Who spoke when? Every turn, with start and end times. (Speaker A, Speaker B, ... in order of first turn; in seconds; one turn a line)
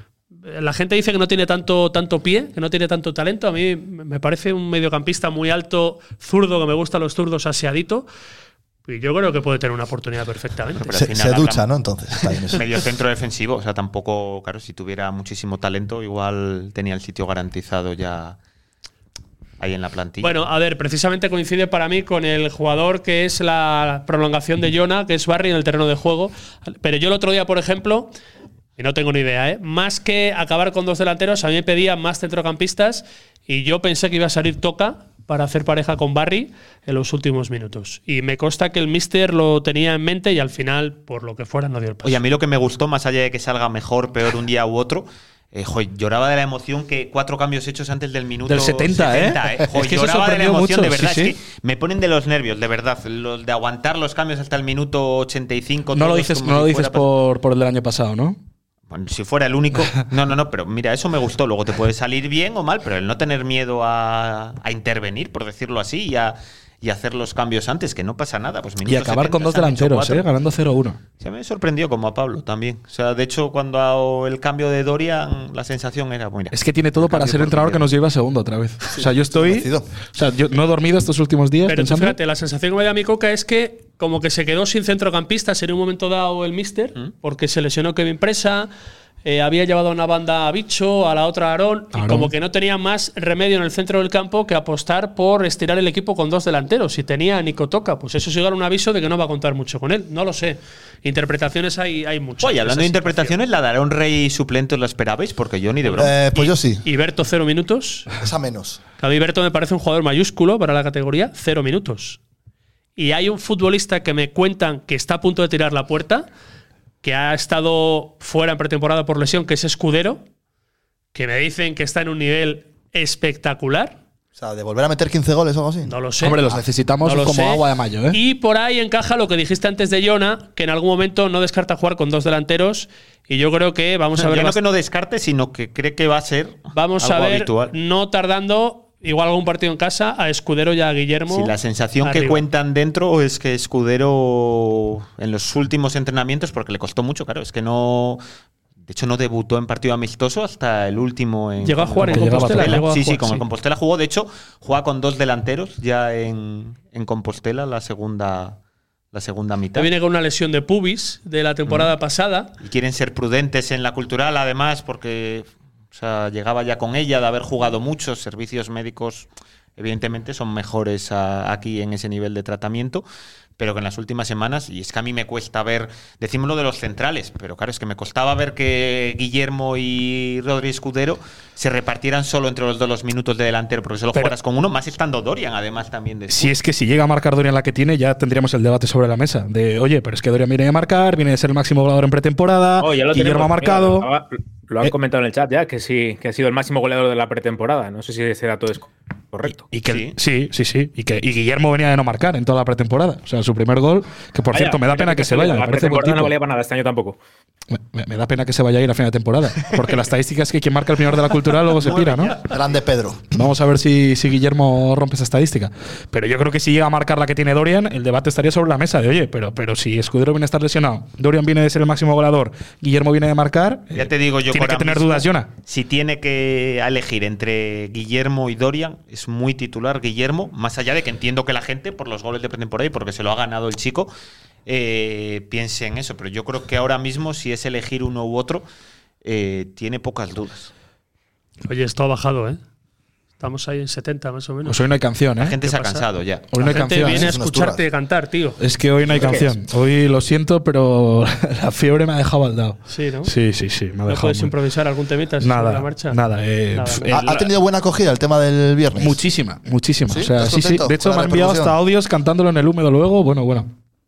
Speaker A: 0.4-8.1
Speaker A: 8.9-10.9
Speaker B: 10.8-11.7
Speaker C: 10.9-12.6
Speaker B: 12.2-18.4
Speaker B: 19.6-20.4
Speaker A: 20.2-28.1
Speaker A: 28.8-42.2
Speaker B: 42.0-57.1
Speaker D: 48.5-51.4
Speaker D: 55.9-58.4
Speaker B: 58.9-70.3
Speaker D: 68.8-71.0
Speaker B: 71.2-77.8
Speaker D: 76.5-82.2
Speaker C: 78.9-79.9
Speaker A: 81.7-88.7
Speaker A: 89.2-103.4
Speaker D: 91.9-92.3
Speaker B: 102.4-106.2
Speaker A: 105.8-108.1
Speaker C: 106.0-106.8
Speaker C: 108.2-108.8
Speaker A: 109.0-112.2
Speaker A: 113.0-116.3
Speaker A: 117.0-120.2
Speaker A: 121.1-124.0
Speaker C: 124.3-126.6
Speaker A: 125.8-126.4
Speaker D: 126.2-128.2
Speaker A: 127.0-134.6
Speaker B: 134.2-137.7
Speaker A: 136.7-142.4
Speaker B: 141.3-148.2
Speaker B: 148.8-158.6
Speaker A: 151.6-153.4
Speaker D: 152.0-153.0
Speaker B: 159.1-159.9
Speaker A: 159.7-162.5
Speaker B: 161.7-161.9
Speaker B: 162.6-173.0
Speaker B: 173.6-186.5
Speaker D: 186.3-194.1
Speaker E: 192.8-199.7
Speaker D: 199.7-206.3
Speaker B: 199.8-200.2
Speaker E: 204.5-207.2
Speaker D: 207.7-212.4
Speaker B: 209.7-210.0
Speaker B: 211.7-212.5
Speaker C: 212.5-213.3
Speaker D: 213.3-225.5
Speaker B: 223.9-234.1
Speaker B: 234.7-238.6
Speaker B: 239.2-240.7
Speaker A: 241.6-242.6
Speaker A: 243.4-244.8
Speaker D: 244.6-245.6
Speaker B: 245.4-246.5
Speaker A: 245.6-246.1
Speaker D: 246.5-247.3
Speaker A: 246.6-248.6
Speaker C: 247.0-247.8
Speaker D: 248.6-254.5
Speaker A: 252.9-253.3
Speaker A: 254.1-256.2
Speaker D: 255.4-257.4
Speaker A: 256.7-257.3
Speaker C: 257.1-259.2
Speaker D: 259.0-263.7
Speaker C: 260.1-261.8